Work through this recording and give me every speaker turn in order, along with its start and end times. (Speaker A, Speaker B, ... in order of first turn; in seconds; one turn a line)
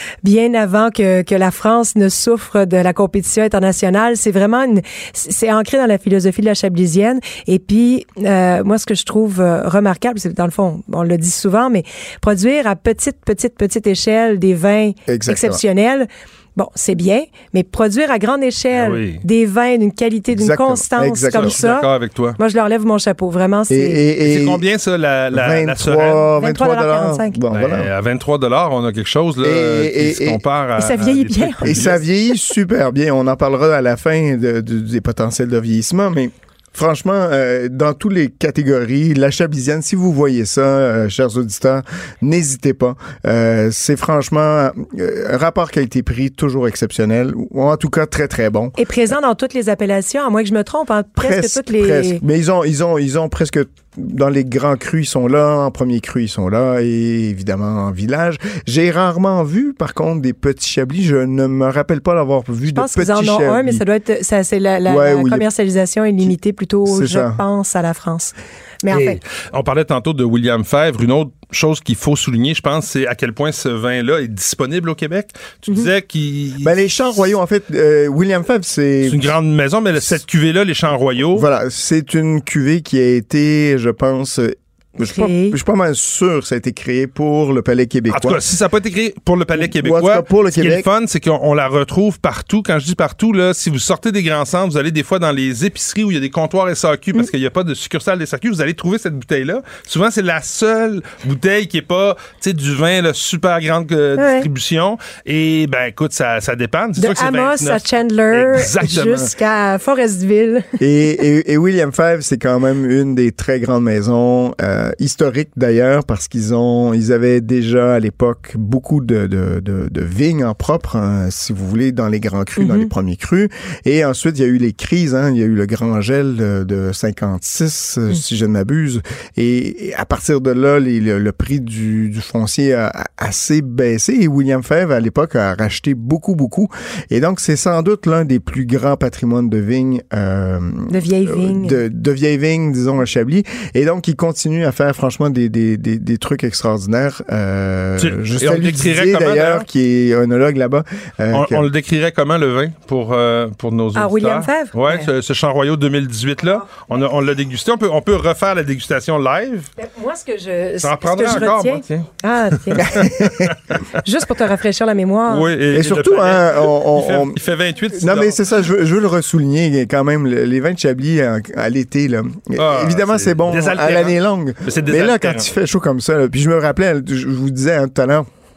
Speaker A: 0.2-24.0
Speaker B: 15.1-15.6
Speaker C: 18.7-19.2
Speaker B: 20.3-21.6
Speaker C: 21.3-22.4
Speaker B: 23.7-24.6
Speaker C: 24.2-26.2
Speaker B: 25.3-27.9
Speaker A: 26.4-27.4
Speaker C: 27.5-32.0
Speaker B: 29.4-30.4
Speaker A: 30.8-31.8
Speaker B: 31.6-48.8
Speaker A: 48.8-52.2
Speaker B: 51.2-63.8
Speaker A: 62.7-69.2
Speaker B: 64.9-65.5
Speaker B: 66.8-67.4
Speaker C: 68.9-77.2
Speaker B: 76.6-79.3
Speaker C: 79.0-81.5
Speaker B: 81.3-88.4
Speaker A: 85.0-85.6
Speaker C: 88.1-109.3
Speaker B: 89.5-90.9
Speaker A: 104.2-104.5
Speaker A: 107.0-110.7
Speaker B: 110.8-151.7
Speaker A: 122.6-122.9
Speaker A: 140.9-141.8
Speaker C: 148.0-149.7
Speaker C: 151.3-159.7
Speaker A: 153.9-155.1
Speaker A: 156.4-156.8
Speaker A: 159.8-163.0
Speaker C: 160.8-162.1
Speaker C: 162.7-163.9
Speaker B: 162.9-163.5
Speaker A: 164.0-165.5
Speaker C: 165.3-168.4
Speaker B: 165.7-167.4
Speaker B: 167.9-178.3
Speaker C: 172.6-175.5